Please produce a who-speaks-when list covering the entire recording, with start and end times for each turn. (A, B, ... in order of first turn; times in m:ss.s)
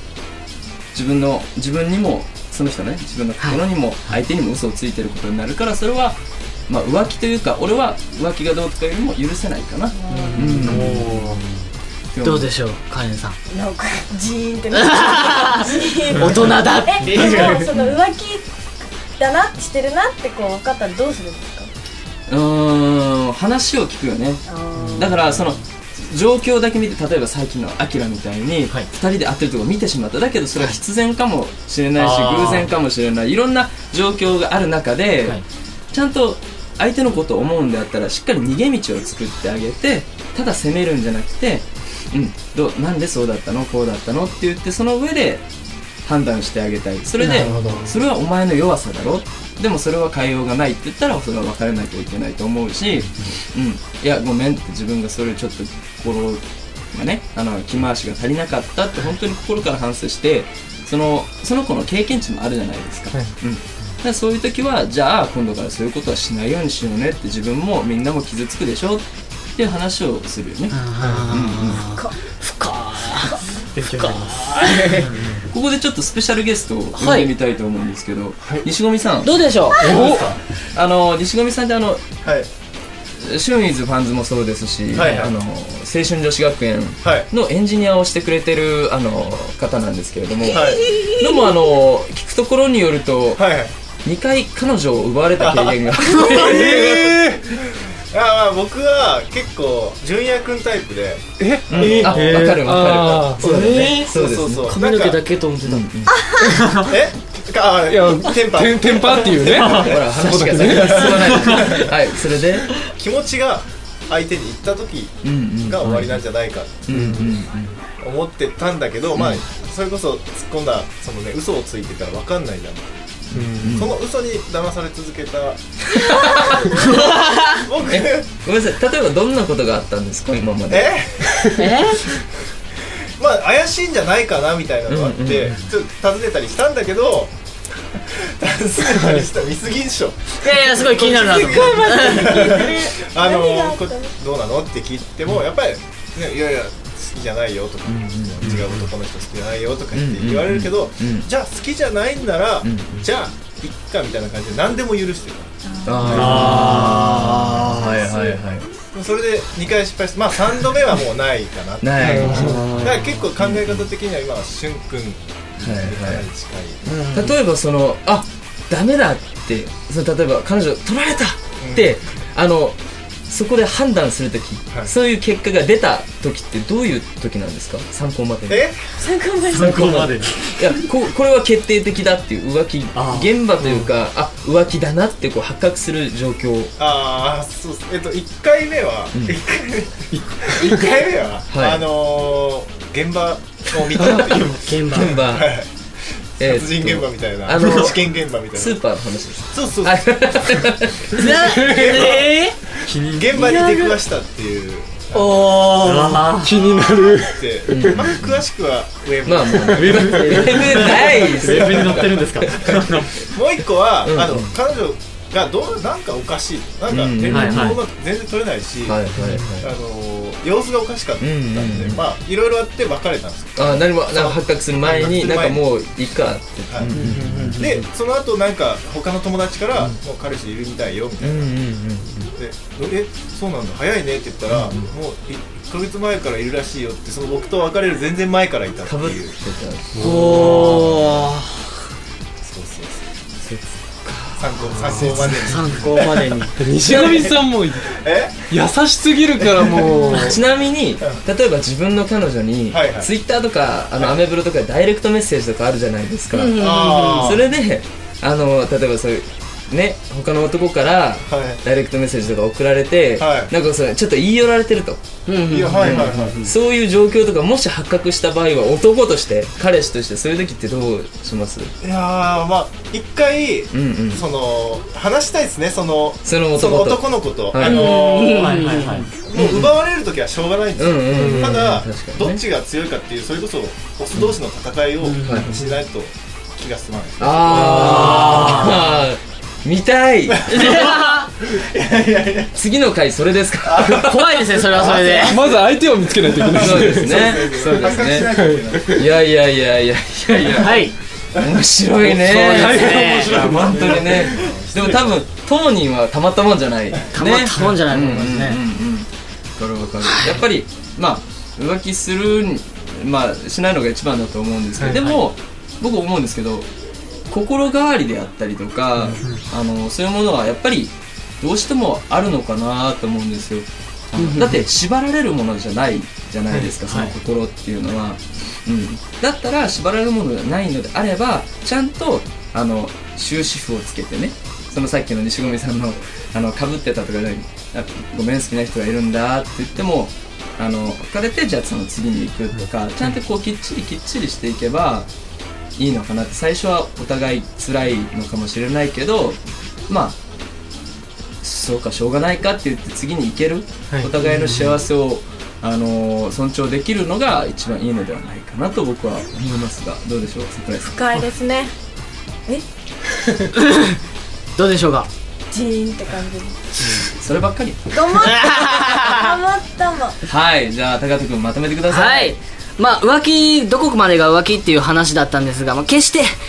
0:00.9-0:11.1 A
0:09.9-0:10.6 B
0:10.1-0:11.6 C
0:10.6-0:11.4 D
0:12.1-0:12.5 A
0:12.2-0:13.4 C
0:13.5-0:18.5 B
0:14.7-0:17.6 C
0:17.1-0:18.0 A
0:19.2-0:21.7 B
0:22.3-0:24.4 A
0:24.5-0:25.1 B
0:24.8-0:25.6 C
0:25.0-0:35.4 A
0:31.9-0:32.7 D
0:35.9-0:45.4 A
0:46.0-1:09.0 A
0:47.2-0:47.9 C
0:47.4-0:47.9 D
1:09.6-1:10.8 A
1:10.7-1:15.0 C
1:11.0-1:11.3 E
1:11.3-1:11.8 A
1:13.7-1:15.4 D
1:15.4-1:19.4 A
1:16.9-1:17.3 C
1:19.2-1:19.9 C
1:19.8-1:20.3 E
1:19.9-1:22.1 A
1:22.2-1:22.5 F
1:23.2-1:33.4 A
1:24.9-1:25.3 F
1:27.0-1:27.3 F
1:30.5-1:30.9 F
1:33.4-1:33.7 F
1:34.0-1:37.2 A
1:35.4-1:36.0 F
1:36.2-1:37.4 E
1:38.1-1:42.4 F
1:41.4-1:43.9 E
1:41.7-1:44.8 A
1:42.2-1:42.6 D
1:43.4-1:44.1 C
1:43.4-1:45.2 F
1:44.7-1:45.9 C
1:45.6-1:46.2 A
1:46.1-1:46.6 B
1:46.8-1:51.9 F
1:47.9-1:51.3 E
1:49.6-1:50.0 D
1:49.8-1:52.7 A
1:51.3-1:51.7 D
1:52.7-1:57.3 F
1:55.2-1:55.8 A
1:55.8-1:56.2 D
1:56.8-1:57.7 A
1:56.9-1:57.3 D
1:58.0-2:03.0 F
1:59.1-1:59.4 A
2:03.3-2:03.9 A
2:03.4-2:03.8 D
2:03.6-2:08.2 F
2:06.0-2:06.6 A
2:07.9-2:10.9 A
2:10.7-2:11.6 F
2:11.6-2:12.1 C
2:13.2-2:17.3 F
2:14.9-2:15.6 A
2:18.1-2:36.9 F
2:18.8-2:19.3 E
2:20.4-2:22.6 C
2:21.5-2:24.1 B
2:27.9-2:28.6 A
2:29.9-2:31.3 A
2:32.6-2:33.1 A
2:35.6-2:36.6 B
2:35.8-2:38.7 A
2:36.2-2:37.0 D
2:37.7-2:38.3 F
2:38.9-2:46.8 F
2:41.8-2:43.9 A
2:42.6-2:43.0 D
2:45.6-2:46.2 A
2:47.1-2:52.8 A
2:51.6-2:52.0 F
2:53.3-2:58.7 A
2:58.5-2:59.0 F
2:59.0-3:00.1 B
2:59.5-3:00.7 D
2:59.7-3:00.0 A
3:00.6-3:06.7 A
3:02.9-3:03.9 D
3:06.8-3:15.7 F
3:11.5-3:11.8 A
3:14.0-3:15.6 A
3:14.5-3:15.1 C
3:16.4-3:18.8 F
3:16.4-3:18.0 A
3:18.6-3:21.6 A
3:19.5-3:20.4 F
3:21.2-3:22.5 F
3:21.4-3:21.9 E
3:21.9-3:22.2 D
3:21.9-3:22.5 C
3:22.8-3:23.6 D
3:23.1-3:25.4 F
3:23.4-3:23.8 C
3:25.1-3:26.2 C
3:25.8-3:26.5 D
3:26.4-3:27.9 E
3:26.4-3:31.6 F
3:27.7-3:28.4 A
3:29.2-3:32.7 A
3:30.0-3:33.1 D
3:33.2-3:45.7 F
3:34.0-3:34.5 A
3:36.9-3:37.7 A
3:37.2-3:37.8 D
3:38.8-3:39.7 A
3:39.2-3:39.4 D
3:41.2-3:42.0 A
3:43.6-3:47.7 A
3:46.7-3:51.5 F
3:46.9-3:47.8 C
3:51.2-3:52.3 A
3:52.4-3:59.4 F
3:54.5-3:54.9 A
3:58.8-4:00.0 A
4:00.0-4:01.5 C
4:00.3-4:00.9 D
4:02.4-4:03.0 F
4:03.4-4:04.5 A
4:04.4-4:06.3 F
4:04.7-4:06.6 C
4:06.6-4:08.0 E
4:06.9-4:07.3 F
4:07.9-4:08.5 F
4:08.5-4:10.4 E
4:09.5-4:09.9 F
4:10.0-4:25.0 A
4:12.7-4:13.1 F
4:16.3-4:17.3 C
4:16.6-4:17.5 F
4:21.3-4:21.6 F
4:23.2-4:23.5 F
4:25.3-4:26.4 C
4:25.5-4:26.4 F
4:25.8-4:31.7 A
4:31.8-4:38.6 F
4:33.7-4:34.2 A
4:36.2-4:37.9 A
4:37.6-4:39.1 C
4:38.4-4:39.1 D
4:39.2-4:47.8 F
4:39.3-4:39.8 A
4:40.8-4:42.4 A
4:41.1-4:41.6 E
4:45.0-4:45.5 C
4:47.2-4:50.9 A
4:47.6-4:48.4 E
4:47.7-4:48.7 C
4:47.9-4:48.8 D
4:50.3-4:52.5 F
4:50.6-4:51.2 C
4:52.5-4:54.4 A
4:53.6-4:54.1 F
4:54.0-4:55.3 C
4:54.6-4:55.6 F
4:55.3-4:57.3 E
4:56.3-4:59.0 F
4:56.6-4:58.3 A
4:57.8-4:59.0 E
4:58.9-5:16.7 A
5:00.6-5:00.9 C
5:02.0-5:04.3 E
5:02.2-5:03.4 C
5:03.1-5:05.2 F
5:07.1-5:08.6 C
5:10.0-5:10.4 C
5:14.9-5:15.2 D
5:17.3-5:45.1 A
5:19.0-5:19.4 D
5:24.1-5:24.5 D
5:24.2-5:24.6 C
5:26.5-5:27.1 D
5:45.8-5:50.2 A
5:51.4-6:01.0 A
5:54.2-5:54.7 C
6:00.8-6:01.7 B
6:04.6-6:05.1 C
6:05.5-6:06.6 B
6:07.2-6:08.0 A
6:07.9-6:10.2 B
6:08.2-6:09.3 C
6:10.3-6:12.3 A
6:11.9-6:16.3 C